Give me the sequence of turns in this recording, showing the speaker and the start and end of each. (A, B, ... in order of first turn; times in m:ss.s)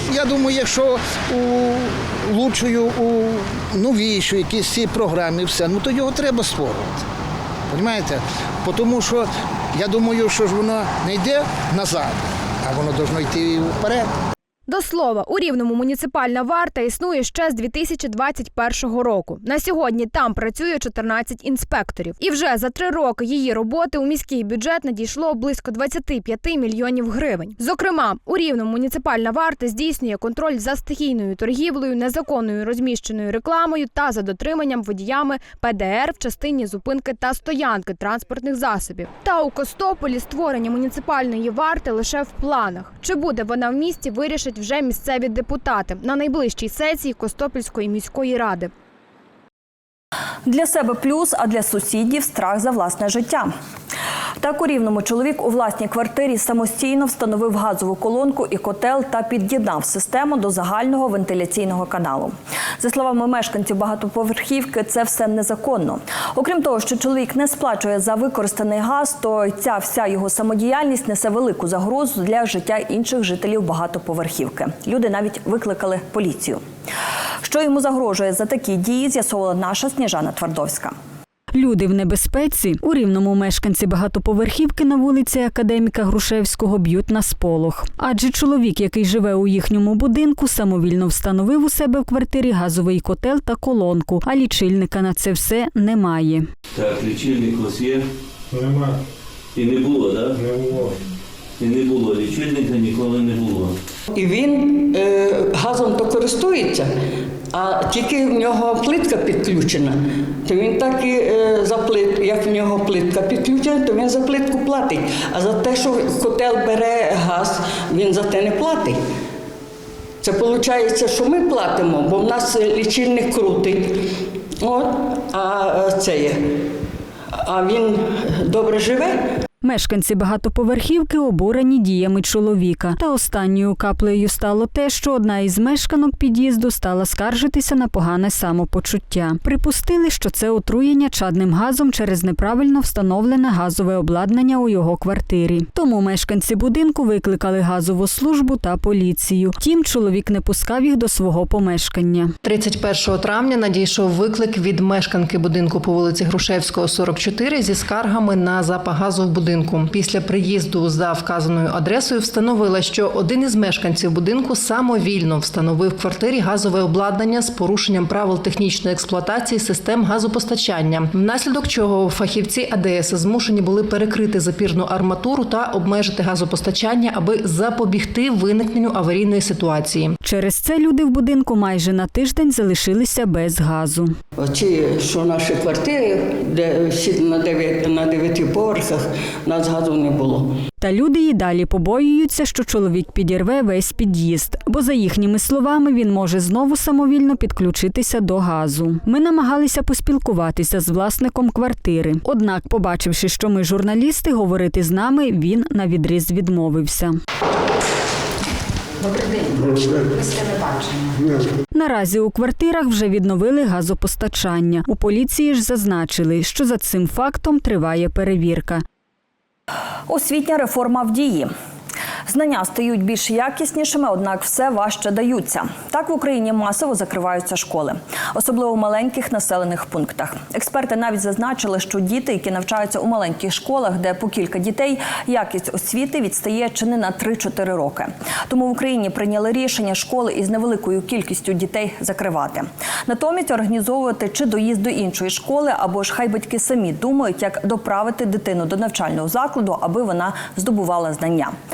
0:00.1-0:07.0 A
0:07.7-0:14.1 A
0:14.7-0:48.7 B
0:50.5-0:53.5 C
0:54.4-1:16.6 C
1:17.4-1:20.9 C
1:21.5-1:36.5 D
1:36.8-1:38.0 E
1:39.6-1:40.9 E
1:41.6-1:43.7 E
1:44.2-1:46.9 F
1:47.5-1:59.0 F
2:00.2-2:04.0 F
2:04.6-2:06.4 F
2:07.5-2:09.1 F
2:09.6-2:32.3 D
2:32.4-3:00.2 G
3:00.2-3:04.1 D
3:04.4-3:10.5 F
3:10.8-3:27.2 D
3:31.7-3:38.8 D
3:40.1-3:41.5 C
3:42.3-4:11.6 C